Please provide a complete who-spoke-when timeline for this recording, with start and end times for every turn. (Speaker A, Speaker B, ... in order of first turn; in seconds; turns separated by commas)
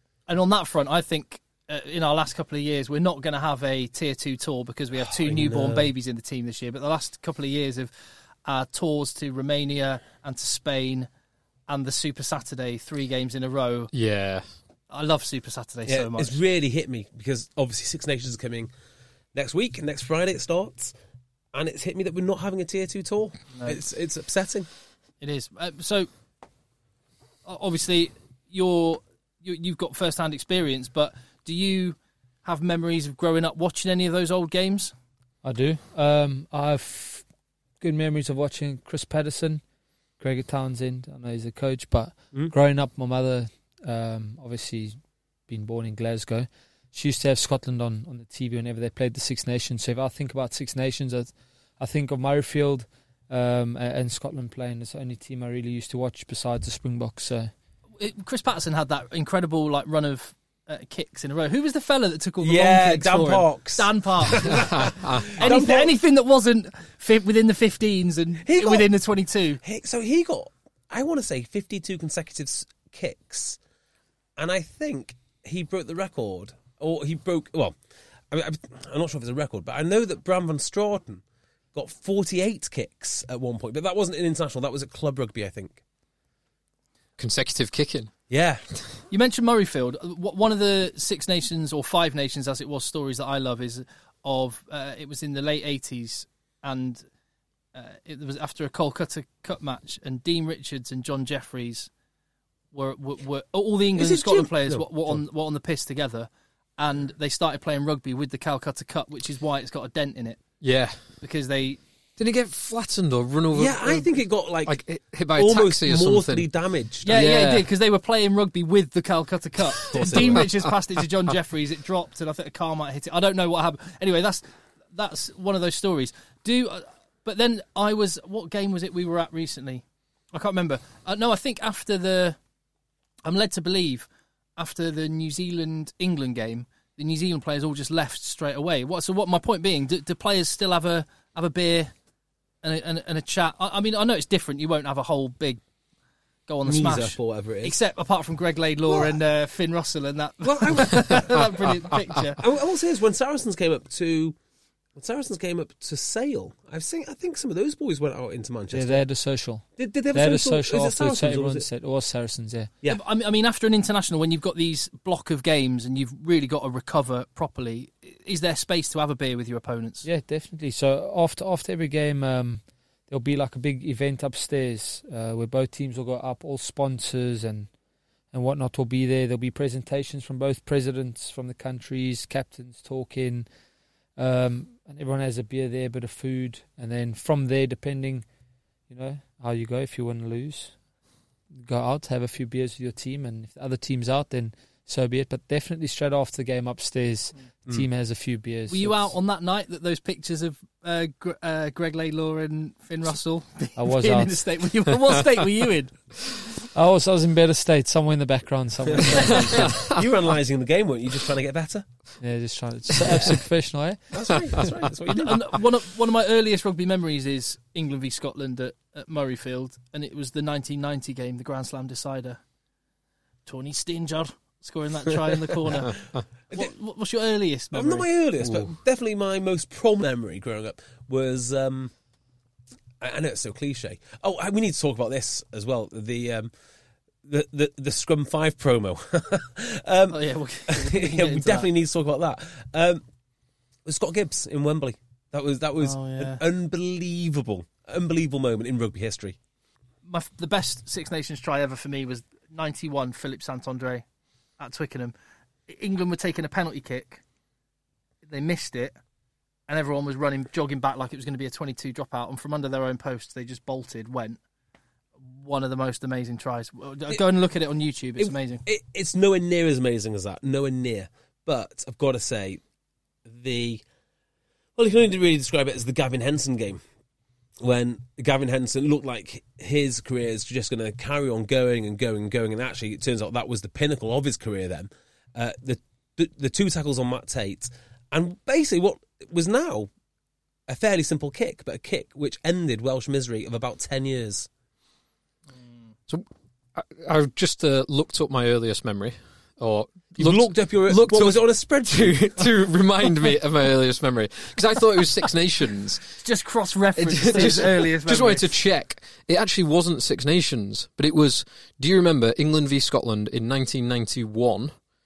Speaker A: 0.3-7.9, Speaker B: 5.2-5.9, Speaker A: 8.4-11.1, Speaker A: 11.7-13.9, Speaker C: 13.9-14.4, Speaker A: 14.9-16.4, Speaker B: 15.9-18.7, Speaker B: 19.3-20.9, Speaker B: 21.5-24.7, Speaker A: 23.5-23.8, Speaker A: 25.2-26.1, Speaker A: 27.4-34.9, Speaker D: 35.4-37.2, Speaker D: 37.8-39.6, Speaker D: 40.2-45.0, Speaker D: 45.5-57.5, Speaker A: 58.0-64.6, Speaker B: 62.4-65.9, Speaker C: 64.4-65.4, Speaker A: 65.4-69.6, Speaker B: 68.4-68.9, Speaker B: 69.6-73.6, Speaker B: 74.4-77.7, Speaker B: 78.3-81.2, Speaker B: 81.7-85.8, Speaker C: 87.2-88.1, Speaker B: 88.3-88.6, Speaker A: 89.1-97.0, Speaker A: 97.7-101.9, Speaker A: 102.7-110.4, Speaker B: 104.0-105.2, Speaker C: 110.6-111.0, Speaker A: 111.2-111.8, Speaker C: 112.2-116.5, Speaker B: 113.5-114.8, Speaker B: 115.3-117.2, Speaker A: 117.0-129.8, Speaker C: 117.0-117.7, Speaker B: 119.9-120.5, Speaker C: 120.1-120.6, Speaker A: 130.3-132.4, Speaker A: 133.2-134.1, Speaker A: 134.6-141.9, Speaker A: 142.6-145.6, Speaker A: 146.5-152.4, Speaker B: 146.6-147.8, Speaker B: 148.9-149.1, Speaker B: 150.4-151.5, Speaker B: 152.4-154.3, Speaker B: 154.9-159.0, Speaker D: 158.7-162.7, Speaker B: 159.8-161.7, Speaker A: 162.9-170.0, Speaker D: 170.0-177.7, Speaker D: 178.3-183.5, Speaker D: 184.2-188.2, Speaker D: 188.9-190.7, Speaker D: 191.6-199.1, Speaker A: 198.7-205.9, Speaker D: 203.8-204.4, Speaker D: 206.7-209.6, Speaker B: 208.9-211.8, Speaker C: 209.5-210.0, Speaker D: 212.2-214.0, Speaker B: 214.1-215.6, Speaker A: 215.2-222.4, Speaker A: 223.4-228.1, Speaker B: 227.7-231.9, Speaker C: 228.4-228.7, Speaker B: 233.0-236.5, Speaker B: 237.2-243.0, Speaker A: 240.1-241.7, Speaker B: 243.8-249.3, Speaker A: 245.8-246.4, Speaker A: 250.1-254.0, Speaker A: 254.6-255.1, Speaker A: 255.7-257.2, Speaker A: 258.2-258.9, Speaker A: 259.7-264.4, Speaker A: 265.3-268.6, Speaker B: 268.2-272.6, Speaker B: 273.2-273.8, Speaker B: 274.8-276.8, Speaker B: 277.6-289.9, Speaker B: 290.7-294.5, Speaker C: 296.1-306.1, Speaker B: 300.1-302.5, Speaker A: 306.2-308.5, Speaker C: 307.0-314.7